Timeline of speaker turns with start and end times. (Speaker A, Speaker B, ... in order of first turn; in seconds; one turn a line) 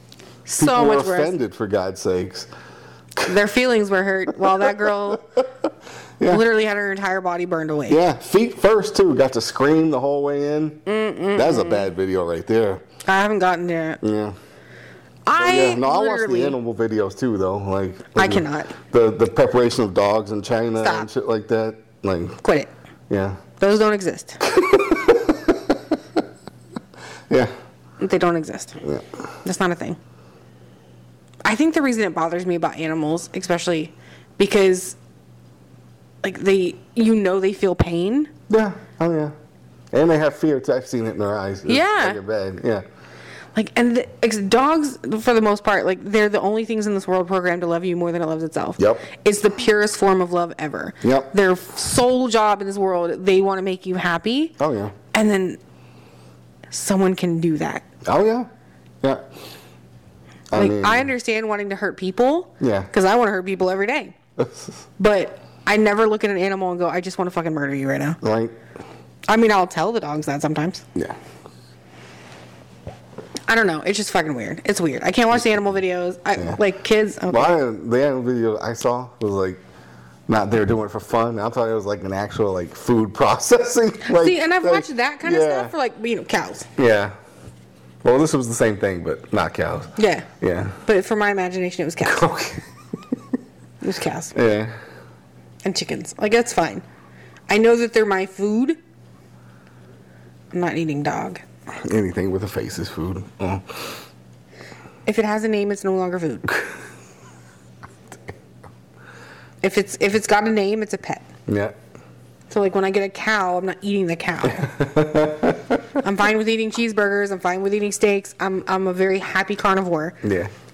Speaker A: 0.5-1.3
Speaker B: 0.6-2.5
Speaker A: 3.2-5.2
Speaker B: 4.6-5.1
Speaker A: 6.3-8.0
Speaker B: 7.9-10.8
Speaker A: 10.8-11.9
Speaker B: 11.3-12.8
Speaker A: 13.0-14.0
Speaker B: 14.0-14.3
Speaker A: 15.2-16.6
Speaker B: 15.4-22.4
Speaker A: 18.1-18.7
Speaker A: 20.8-21.1
Speaker A: 22.4-22.7
Speaker B: 23.1-23.4
Speaker A: 23.6-24.4
Speaker B: 24.4-26.2
Speaker A: 28.0-28.8
Speaker A: 29.4-30.0
Speaker A: 31.4-35.0
Speaker A: 36.2-38.3
Speaker B: 38.5-39.3
Speaker B: 39.9-42.8
Speaker A: 41.7-42.2
Speaker A: 43.5-54.6
Speaker B: 48.8-49.0
Speaker B: 51.0-51.3
Speaker B: 54.6-54.9
Speaker A: 55.1-55.6
Speaker A: 56.7-57.9
Speaker B: 58.0-58.5
Speaker B: 60.5-61.1
Speaker A: 60.5-64.2
Speaker B: 62.6-62.9
Speaker B: 64.4-64.8
Speaker A: 65.0-68.2
Speaker B: 68.2-68.5
Speaker A: 69.3-70.8
Speaker A: 73.5-77.5
Speaker B: 76.3-76.6
Speaker B: 77.3-79.6
Speaker B: 80.3-85.7
Speaker A: 84.0-86.7
Speaker B: 86.8-87.1
Speaker B: 88.0-90.8
Speaker A: 90.0-90.3
Speaker A: 90.8-92.3
Speaker B: 92.0-92.7
Speaker A: 93.8-94.3
Speaker B: 94.3-94.7
Speaker A: 95.6-96.8
Speaker A: 97.5-98.8
Speaker A: 100.5-101.4
Speaker B: 101.8-104.0
Speaker A: 105.0-106.6
Speaker A: 109.6-111.2
Speaker B: 111.5-111.8
Speaker A: 112.5-114.8
Speaker B: 114.5-115.9
Speaker A: 116.0-120.2
Speaker B: 120.2-120.5